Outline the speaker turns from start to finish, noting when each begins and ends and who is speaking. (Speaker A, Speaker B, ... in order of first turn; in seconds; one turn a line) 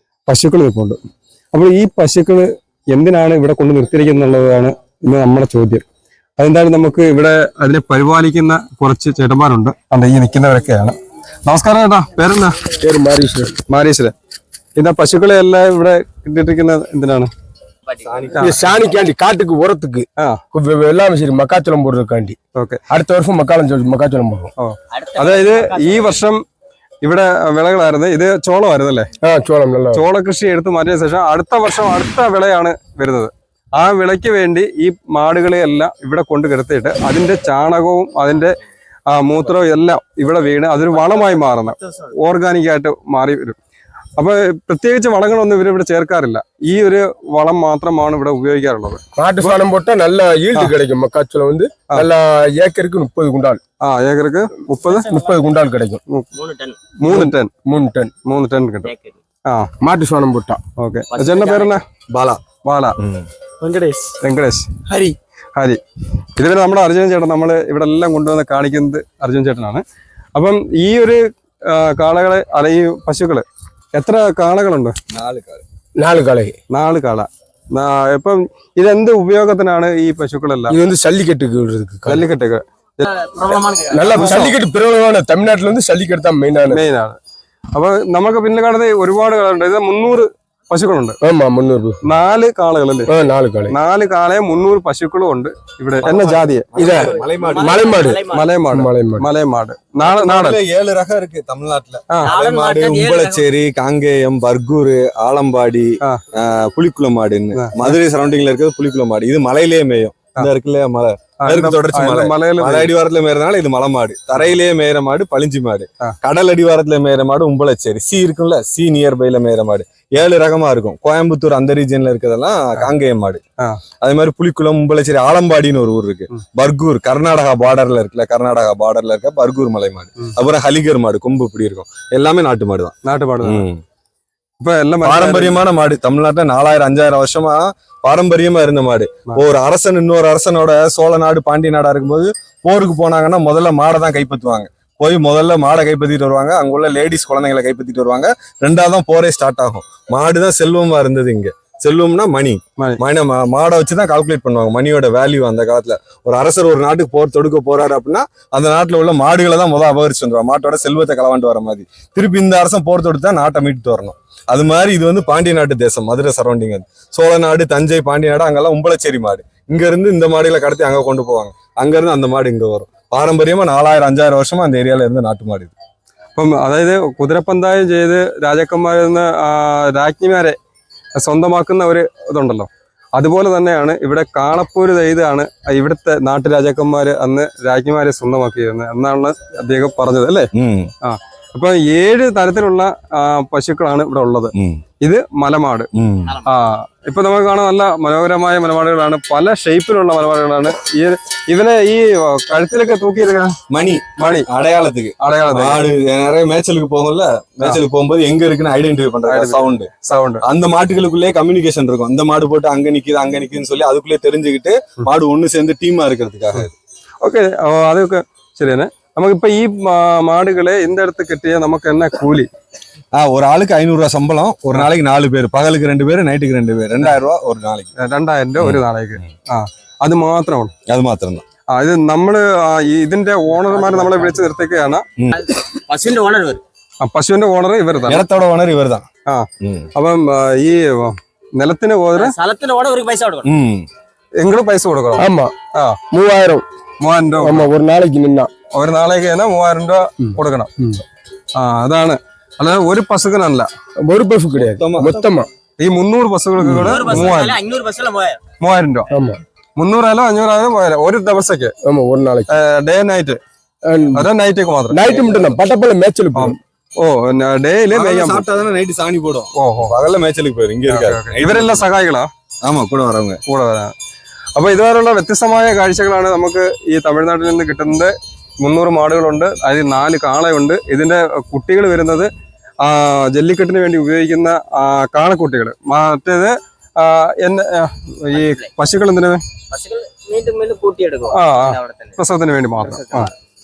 Speaker A: 0.3-1.0
Speaker A: 1.5-5.8
Speaker A: 6.4-12.6
Speaker B: 12.8-13.6
Speaker A: 13.7-14.1
Speaker A: 14.8-17.3
Speaker C: 17.9-18.1
Speaker D: 18.0-18.7
Speaker B: 18.4-22.4
Speaker A: 22.5-22.8
Speaker B: 22.9-24.5
Speaker A: 24.6-26.4
Speaker C: 24.9-26.2
Speaker A: 27.0-29.1
Speaker B: 29.2-30.0
Speaker A: 29.9-38.6
Speaker A: 39.1-43.6
Speaker A: 44.2-49.6
Speaker B: 49.2-53.6
Speaker A: 53.8-55.1
Speaker C: 54.9-55.3
Speaker B: 55.0-56.0
Speaker C: 56.3-56.8
Speaker A: 57.0-57.5
Speaker B: 57.0-58.1
Speaker A: 58.2-58.9
Speaker C: 58.8-59.2
Speaker B: 59.8-60.6
Speaker A: 60.8-61.8
Speaker C: 61.1-61.8
Speaker D: 62.1-62.4
Speaker A: 62.6-63.0
Speaker D: 63.0-63.3
Speaker C: 63.6-64.2
Speaker A: 64.2-64.8
Speaker C: 64.9-65.2
Speaker A: 66.3-69.8
Speaker A: 70.3-75.0
Speaker D: 75.1-75.6
Speaker B: 76.0-76.6
Speaker A: 76.7-80.8
Speaker B: 80.7-82.2
Speaker A: 82.0-83.1
Speaker C: 83.0-84.4
Speaker B: 83.9-86.8
Speaker A: 84.1-84.5
Speaker A: 86.7-87.2
Speaker A: 87.7-91.2
Speaker B: 91.2-92.0
Speaker A: 92.0-93.1
Speaker B: 93.1-93.8
Speaker A: 93.7-96.7
Speaker D: 96.0-98.1
Speaker B: 96.8-99.3
Speaker C: 96.8-98.5
Speaker A: 98.3-100.6
Speaker D: 100.0-123.4
Speaker C: 102.2-103.4
Speaker A: 107.5-108.0
Speaker A: 111.4-112.9
Speaker D: 124.0-133.8
Speaker A: 133.0-133.7
Speaker A: 134.6-135.6
Speaker D: 135.0-175.7
Speaker A: 176.3-180.6
Speaker A: 181.2-190.5
Speaker D: 190.5-190.9
Speaker A: 191.0-195.9
Speaker D: 194.6-194.8
Speaker D: 195.9-196.4
Speaker A: 196.4-203.6
Speaker D: 203.7-209.9
Speaker A: 204.2-204.5
Speaker A: 205.2-205.8
Speaker A: 209.3-210.4
Speaker D: 210.4-216.7
Speaker A: 217.2-222.5
Speaker D: 223.1-227.9
Speaker A: 228.0-230.7
Speaker D: 228.6-229.3
Speaker D: 230.9-231.4
Speaker A: 231.7-235.0
Speaker C: 233.8-234.3
Speaker C: 235.3-236.6
Speaker A: 237.0-238.2
Speaker D: 238.1-239.1
Speaker A: 239.3-242.3
Speaker D: 239.6-239.9
Speaker C: 242.2-243.5
Speaker D: 243.4-243.8
Speaker A: 244.4-246.0
Speaker B: 245.2-245.5
Speaker B: 246.1-246.6
Speaker A: 247.0-247.7
Speaker B: 247.4-248.5
Speaker A: 248.7-250.7
Speaker B: 250.2-251.0
Speaker A: 251.6-253.7
Speaker B: 254.0-255.5
Speaker D: 254.6-255.2
Speaker A: 255.8-257.5
Speaker B: 256.6-257.0
Speaker C: 256.8-258.4
Speaker D: 256.9-257.5
Speaker A: 258.6-259.1
Speaker B: 259.1-259.4
Speaker A: 259.8-261.7
Speaker B: 261.8-262.5
Speaker A: 262.5-263.4
Speaker B: 263.8-264.3
Speaker A: 264.1-265.0
Speaker B: 264.9-266.6
Speaker D: 265.0-265.6
Speaker A: 266.3-268.4
Speaker D: 267.9-271.8
Speaker A: 269.6-269.9
Speaker A: 270.9-272.3
Speaker D: 272.6-273.4
Speaker A: 273.4-273.9
Speaker A: 274.6-282.3
Speaker A: 282.8-289.4
Speaker C: 288.3-288.7
Speaker C: 289.7-292.2
Speaker A: 291.3-293.3
Speaker C: 292.8-293.3